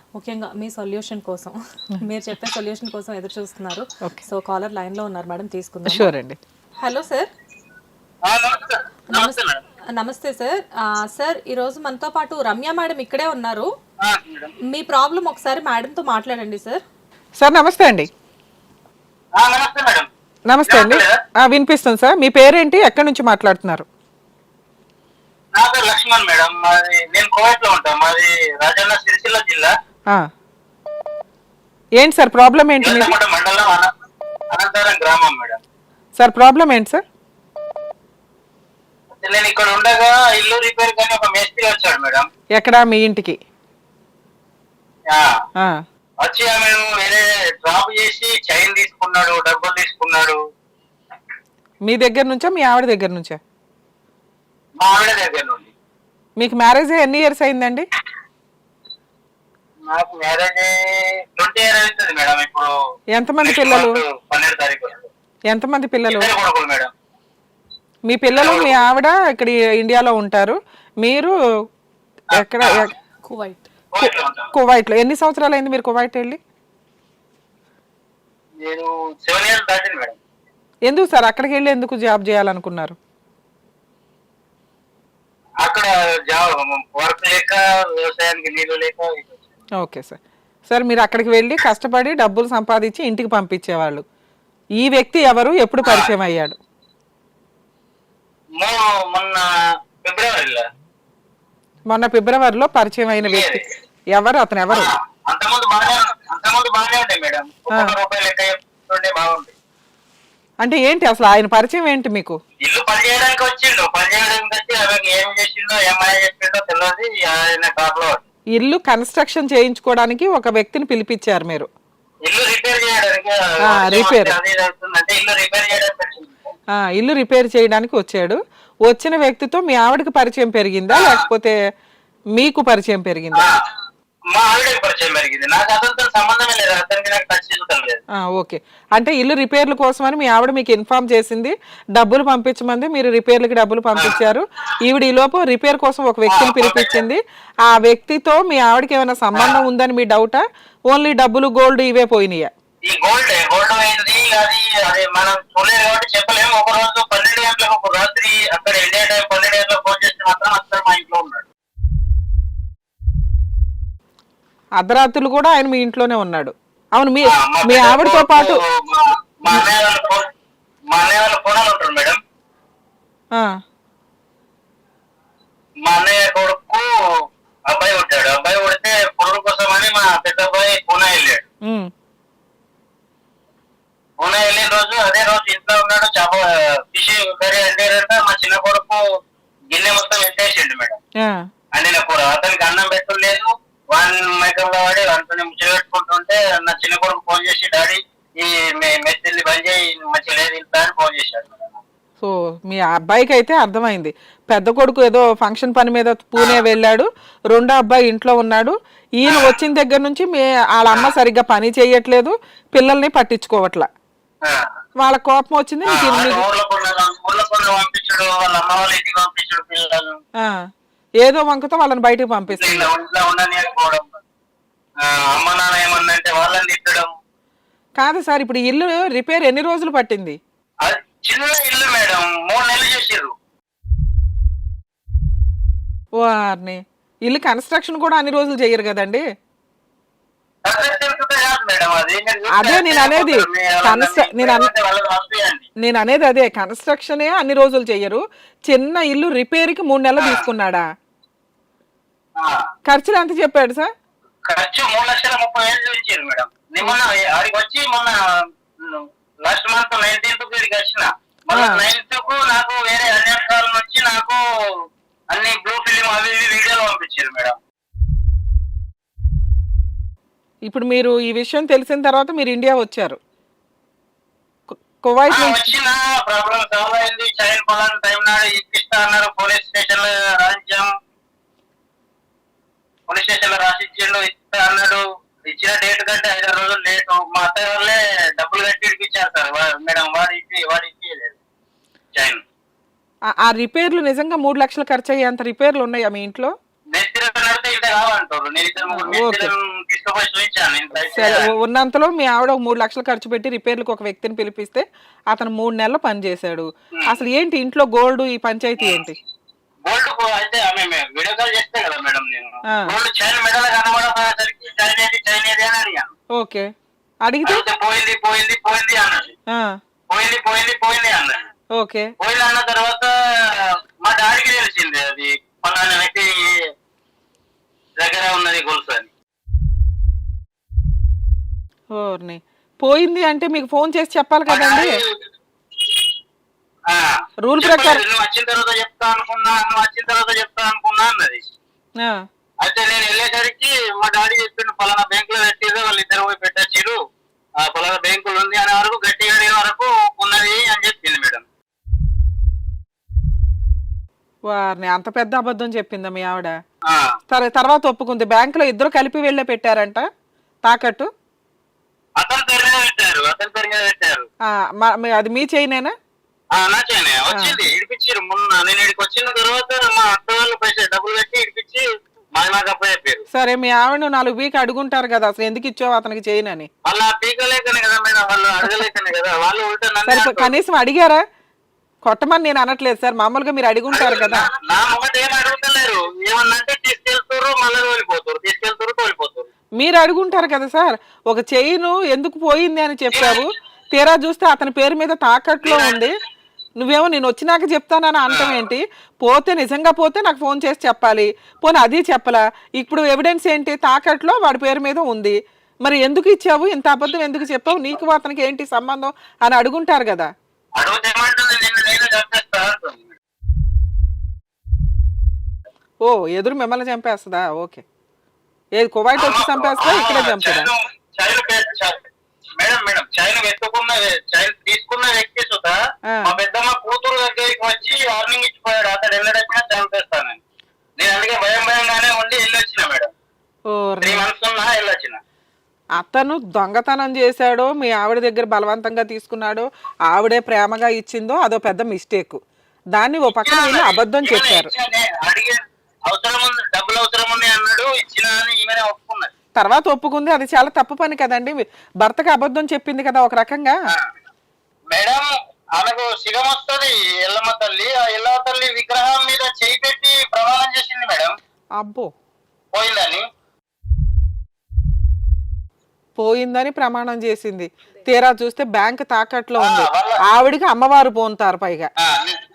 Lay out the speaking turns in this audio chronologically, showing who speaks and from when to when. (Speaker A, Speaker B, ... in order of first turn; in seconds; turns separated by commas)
Speaker A: 0.1-6.1, Speaker B: 5.9-6.4, Speaker A: 6.8-7.3, Speaker C: 8.2-9.6, Speaker A: 9.1-9.4, Speaker A: 9.9-13.7, Speaker C: 14.0-14.5, Speaker A: 14.6-16.8, Speaker B: 17.4-18.1, Speaker C: 19.4-20.1, Speaker B: 20.5-23.9, Speaker C: 20.6-21.2, Speaker C: 25.6-29.7, Speaker B: 32.0-33.1, Speaker C: 32.8-33.9, Speaker C: 34.5-35.6, Speaker B: 36.2-37.0, Speaker C: 39.2-42.3, Speaker B: 42.6-43.4, Speaker C: 46.2-50.4, Speaker B: 51.9-53.4, Speaker C: 54.8-55.7, Speaker B: 56.4-57.8, Speaker C: 59.9-60.7, Speaker C: 61.4-62.7, Speaker B: 63.1-64.0, Speaker C: 63.4-65.1, Speaker B: 65.5-66.3, Speaker C: 66.1-66.9, Speaker B: 68.1-71.3, Speaker C: 68.3-68.8, Speaker B: 72.3-72.9, Speaker C: 72.3-72.8, Speaker A: 73.2-73.7, Speaker C: 73.9-74.5, Speaker B: 74.0-76.4, Speaker C: 78.6-80.2, Speaker B: 80.9-83.0, Speaker C: 85.6-89.4, Speaker B: 89.8-94.0, Speaker B: 94.8-96.6, Speaker C: 95.8-96.1, Speaker C: 98.6-99.4, Speaker C: 100.0-100.6, Speaker B: 101.9-103.6, Speaker C: 103.3-103.6, Speaker B: 104.1-104.9, Speaker C: 104.7-109.5, Speaker B: 110.6-112.4, Speaker C: 112.6-118.2, Speaker B: 118.5-121.7, Speaker C: 122.2-126.5, Speaker B: 123.7-124.3, Speaker B: 126.8-131.5, Speaker C: 130.9-131.2, Speaker B: 132.3-133.5, Speaker C: 134.3-138.0, Speaker B: 138.3-152.5, Speaker C: 146.3-147.0, Speaker C: 152.8-161.4, Speaker B: 164.8-168.6, Speaker C: 167.3-170.3, Speaker C: 170.9-172.2, Speaker C: 175.8-176.8, Speaker C: 177.7-181.4, Speaker C: 184.2-189.0, Speaker C: 189.7-191.0, Speaker C: 191.7-201.8, Speaker B: 202.2-213.9, Speaker C: 209.3-209.5, Speaker B: 215.0-216.4, Speaker C: 215.9-220.2, Speaker B: 221.2-222.9, Speaker C: 222.5-224.1, Speaker C: 225.0-227.1, Speaker B: 228.0-230.4, Speaker C: 230.8-233.3, Speaker B: 236.2-239.2, Speaker C: 240.7-245.7, Speaker B: 242.5-244.7, Speaker B: 245.8-250.8, Speaker B: 252.9-253.9, Speaker C: 254.5-258.2, Speaker C: 258.8-264.4, Speaker B: 261.5-261.8, Speaker C: 265.3-267.6, Speaker B: 270.7-273.2, Speaker B: 274.7-275.7, Speaker C: 275.3-280.9, Speaker C: 283.1-291.4, Speaker C: 292.1-292.4, Speaker B: 293.4-296.5, Speaker C: 296.9-301.3, Speaker B: 298.9-299.5, Speaker B: 301.1-309.1, Speaker C: 309.8-316.1, Speaker B: 316.4-316.6, Speaker B: 317.2-317.6, Speaker C: 317.4-319.4, Speaker C: 320.1-321.4, Speaker B: 321.8-322.1, Speaker C: 322.2-323.1, Speaker C: 324.0-326.5, Speaker C: 328.0-329.1, Speaker B: 331.9-334.9, Speaker C: 334.5-334.9, Speaker B: 337.5-338.0, Speaker C: 337.6-341.4, Speaker C: 342.6-347.0, Speaker C: 347.6-351.4, Speaker B: 354.5-356.5, Speaker B: 357.3-360.1, Speaker B: 360.6-361.1, Speaker C: 362.2-364.3, Speaker B: 364.8-365.9, Speaker C: 366.5-371.8, Speaker C: 372.4-373.2, Speaker B: 373.3-376.7, Speaker C: 376.9-380.5, Speaker B: 380.1-381.2, Speaker B: 382.0-384.5, Speaker C: 383.9-389.5, Speaker B: 389.8-396.1, Speaker C: 393.1-393.4, Speaker C: 395.6-396.0, Speaker B: 396.8-410.3, Speaker C: 410.8-413.1, Speaker B: 416.0-417.8, Speaker B: 418.8-420.7, Speaker C: 419.2-422.0, Speaker C: 422.6-425.7, Speaker C: 426.2-430.4, Speaker C: 431.0-433.1, Speaker B: 433.7-434.2, Speaker C: 434.0-435.2, Speaker B: 436.0-442.4, Speaker B: 442.9-444.7, Speaker C: 443.4-449.3, Speaker B: 449.6-453.7, Speaker C: 454.9-461.3, Speaker B: 461.8-462.1, Speaker C: 462.7-463.2, Speaker B: 466.2-471.9, Speaker C: 469.6-470.2, Speaker C: 472.0-472.4